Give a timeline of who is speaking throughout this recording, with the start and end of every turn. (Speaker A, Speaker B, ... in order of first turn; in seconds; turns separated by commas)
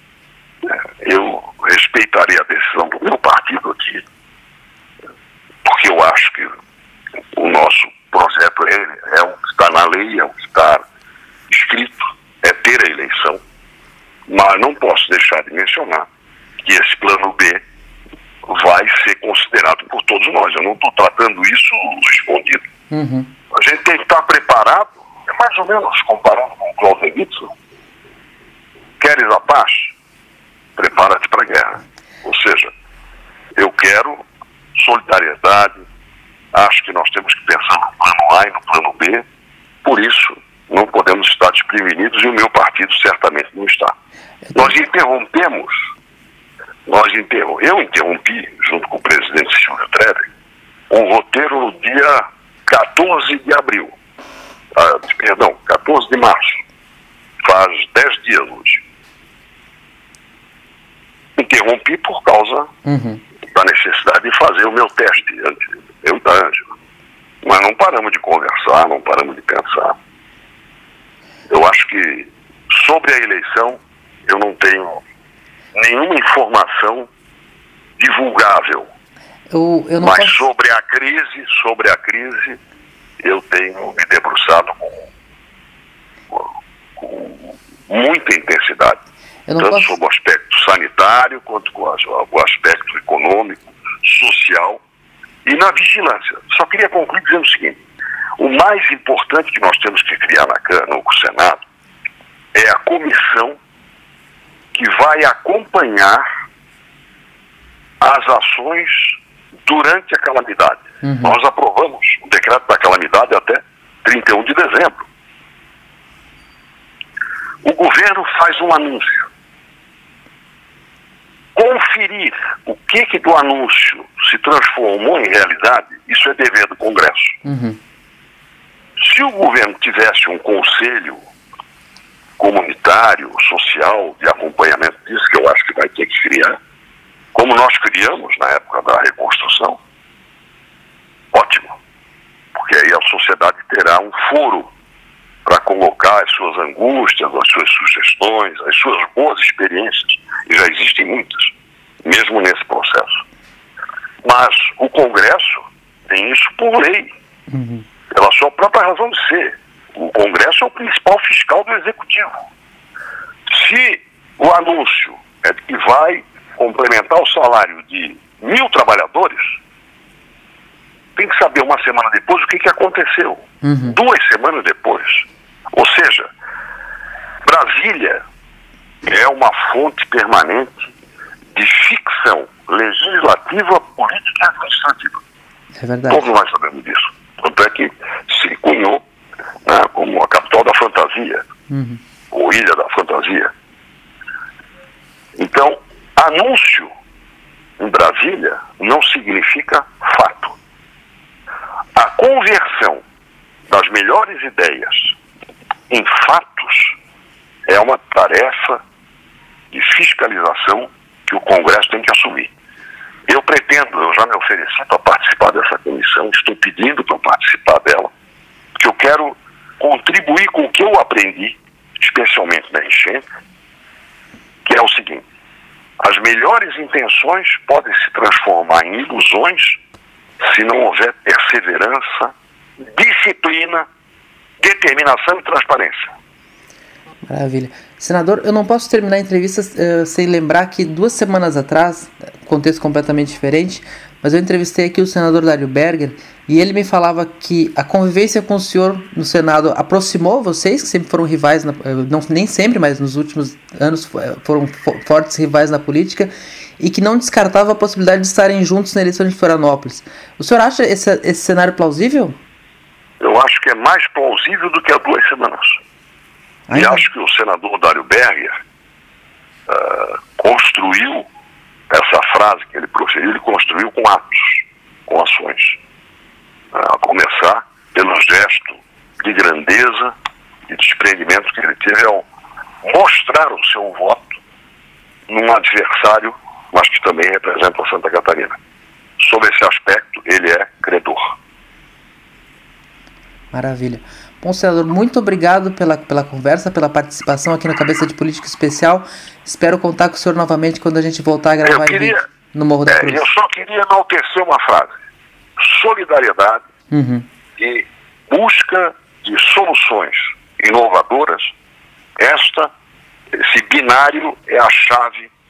Speaker A: 0.6-4.0, Speaker A: 5.6-6.6, Speaker A: 7.3-10.8, Speaker A: 11.5-13.4, Speaker A: 14.3-16.1, Speaker A: 16.6-17.6, Speaker A: 18.4-22.7, Speaker B: 22.9-23.3, Speaker A: 23.5-27.5, Speaker A: 29.0-29.9, Speaker A: 30.8-32.7, Speaker A: 33.5-34.2, Speaker A: 34.8-35.8, Speaker A: 36.5-39.2, Speaker A: 39.8-43.9, Speaker A: 44.5-45.8, Speaker A: 46.9-50.3, Speaker A: 50.9-53.9, Speaker A: 54.7-56.6, Speaker A: 57.4-58.8, Speaker A: 61.4-62.7, Speaker B: 62.8-63.2, Speaker A: 63.5-66.6, Speaker A: 67.4-70.0, Speaker A: 71.5-75.0, Speaker A: 75.7-77.1, Speaker A: 78.0-78.9, Speaker B: 79.5-80.4, Speaker A: 80.0-82.6, Speaker A: 83.2-85.1, Speaker A: 86.3-89.0, Speaker B: 89.5-90.0, Speaker A: 89.6-94.8, Speaker A: 95.4-97.8, Speaker A: 98.4-101.6, Speaker A: 102.5-103.6, Speaker A: 104.7-106.2, Speaker A: 108.0-115.0, Speaker B: 111.0-111.4, Speaker A: 117.6-119.3, Speaker A: 121.5-127.4, Speaker B: 127.4-127.8, Speaker A: 129.0-131.2, Speaker A: 132.4-136.6, Speaker A: 137.3-139.8, Speaker A: 141.3-141.7, Speaker A: 142.5-144.7, Speaker A: 145.4-151.5, Speaker A: 152.0-153.2, Speaker A: 154.2-157.1, Speaker B: 157.5-157.8, Speaker A: 158.1-162.4, Speaker A: 163.5-169.6, Speaker A: 171.2-176.3, Speaker B: 173.6-174.0, Speaker A: 177.4-178.2, Speaker A: 179.0-180.9, Speaker A: 181.5-185.2, Speaker B: 185.8-186.3, Speaker A: 186.1-189.0, Speaker A: 189.6-191.4, Speaker B: 191.7-192.0, Speaker A: 192.3-193.5, Speaker A: 195.3-196.9, Speaker A: 197.8-200.6, Speaker A: 201.9-203.0, Speaker A: 203.7-205.2, Speaker A: 205.9-207.0, Speaker A: 207.7-208.8, Speaker A: 209.7-212.5, Speaker A: 213.3-218.1, Speaker A: 218.8-223.2, Speaker A: 224.6-225.2, Speaker A: 226.0-229.8, Speaker A: 230.4-233.9, Speaker A: 234.6-236.1, Speaker B: 237.2-262.4, Speaker A: 263.2-265.8, Speaker B: 266.7-267.1, Speaker A: 266.7-268.6, Speaker A: 269.7-271.3, Speaker A: 271.9-275.8, Speaker A: 276.7-280.1, Speaker A: 280.7-282.2, Speaker A: 282.8-284.4, Speaker A: 285.3-288.6, Speaker A: 289.2-291.4, Speaker B: 293.5-303.3, Speaker A: 301.6-302.2, Speaker A: 302.9-304.9, Speaker A: 305.6-306.6, Speaker B: 306.9-307.2, Speaker A: 307.6-311.5, Speaker A: 312.2-312.7, Speaker A: 313.3-315.3